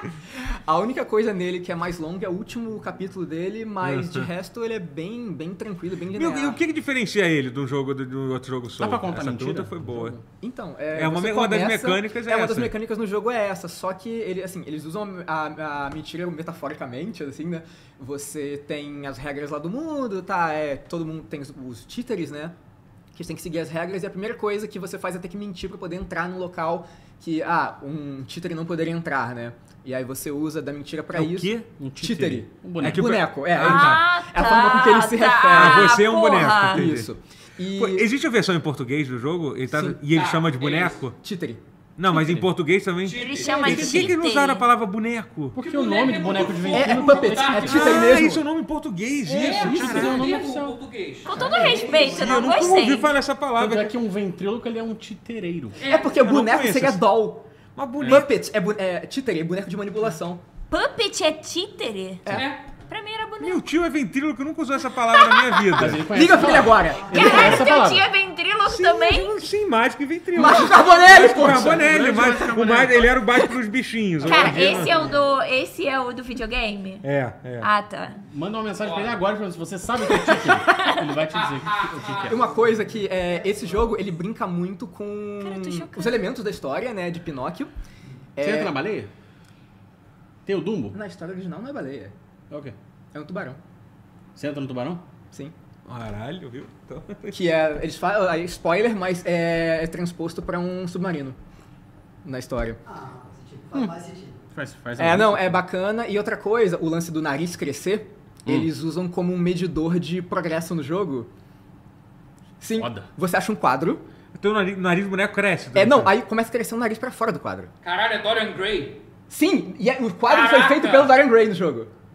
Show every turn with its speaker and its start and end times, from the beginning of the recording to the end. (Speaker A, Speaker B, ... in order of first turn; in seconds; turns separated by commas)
Speaker A: 0.4-6.6, Speaker B: 3.8-4.3, Speaker B: 6.1-10.2, Speaker C: 8.8-10.2, Speaker A: 10.4-22.6, Speaker B: 10.9-12.8, Speaker A: 23.1-38.1, Speaker B: 31.1-31.7, Speaker C: 31.7-33.1, Speaker B: 32.8-34.1, Speaker D: 33.6-36.9, Speaker B: 35.5-37.1, Speaker B: 37.7-41.2, Speaker A: 39.7-40.0, Speaker E: 40.1-41.0, Speaker A: 41.2-41.6, Speaker B: 42.0-45.6, Speaker C: 42.1-42.4, Speaker E: 43.0-44.0, Speaker D: 43.1-44.7, Speaker C: 45.5-48.1, Speaker E: 45.6-48.2, Speaker A: 46.7-48.4, Speaker B: 47.6-50.4, Speaker C: 49.2-50.8, Speaker E: 49.3-51.3, Speaker D: 51.3-53.1, Speaker A: 51.3-52.2, Speaker C: 51.4-51.9, Speaker B: 52.0-54.0, Speaker C: 53.6-55.9, Speaker E: 55.8-56.2, Speaker A: 55.9-57.5, Speaker B: 56.1-57.0, Speaker B: 57.8-58.3, Speaker A: 58.0-60.4, Speaker D: 60.7-63.6, Speaker E: 62.3-62.6, Speaker B: 63.4-66.2, Speaker D: 65.1-65.8, Speaker C: 65.7-68.1, Speaker A: 66.1-67.7, Speaker F: 67.1-67.4, Speaker D: 67.1-69.4, Speaker B: 68.7-75.0, Speaker A: 70.3-71.9, Speaker C: 71.1-73.1, Speaker C: 74.2-75.2, Speaker D: 74.2-77.1, Speaker B: 77.0-77.7, Speaker D: 77.6-78.2, Speaker C: 78.3-82.5, Speaker E: 78.8-79.2, Speaker D: 80.0-81.1, Speaker E: 81.3-82.4, Speaker A: 82.3-87.7, Speaker F: 83.4-83.9, Speaker D: 85.4-86.3, Speaker A: 88.4-88.8, Speaker C: 88.4-89.1, Speaker C: 90.5-91.0, Speaker A: 90.9-92.1, Speaker C: 92.5-92.8, Speaker A: 93.1-93.6, Speaker C: 94.3-95.1, Speaker B: 95.9-97.5, Speaker A: 97.3-101.4, Speaker A: 102.2-102.8, Speaker F: 102.8-104.5, Speaker C: 104.5-105.6, Speaker A: 105.0-111.3, Speaker C: 108.5-108.7, Speaker A: 112.6-114.0, Speaker C: 112.8-113.1, Speaker B: 114.3-116.1, Speaker A: 115.8-117.7, Speaker E: 117.8-119.0, Speaker A: 119.3-121.9, Speaker E: 120.3-121.2